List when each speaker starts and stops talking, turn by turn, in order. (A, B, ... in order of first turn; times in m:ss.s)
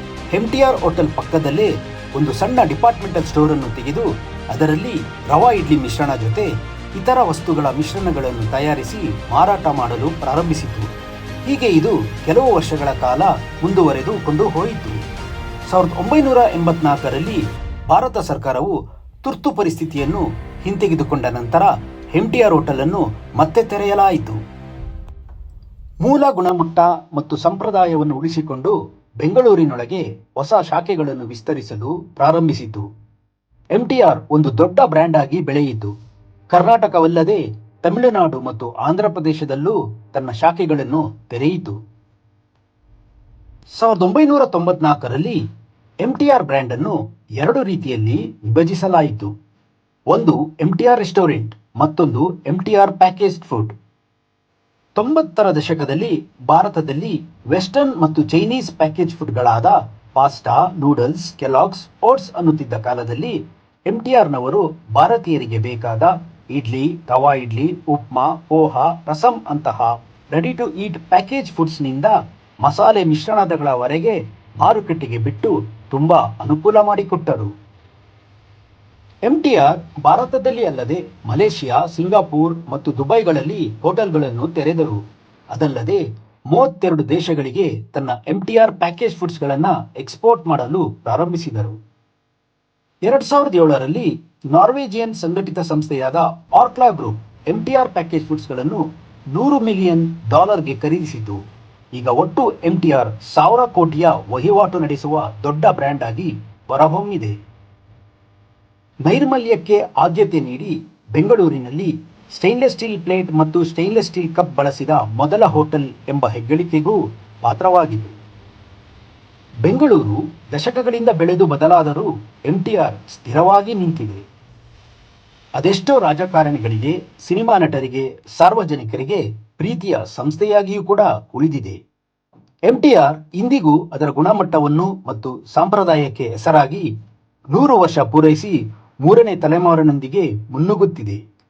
0:00.3-0:10.9 A
0:11.5-0:15.0 A
0:15.7-0:24.4 A
0:26.0-0:32.9 A
0:33.8-0:35.9 A
0:36.5-0:41.8 A
0:43.8-0:45.4 A
0:46.0-0:49.3 A
0:50.1-0:53.7 A
0:55.0-1:03.4 A
1:03.9-1:17.5 A
1:19.3-1:25.0 A
1:25.5-1:26.0 A
1:26.5-1:31.8 A
1:33.1-1:41.4 A
1:42.0-1:47.4 A
1:49.1-1:58.1 A
1:59.6-2:04.2 A
2:05.6-2:11.8 A
2:12.7-2:16.9 A
2:17.5-2:21.2 A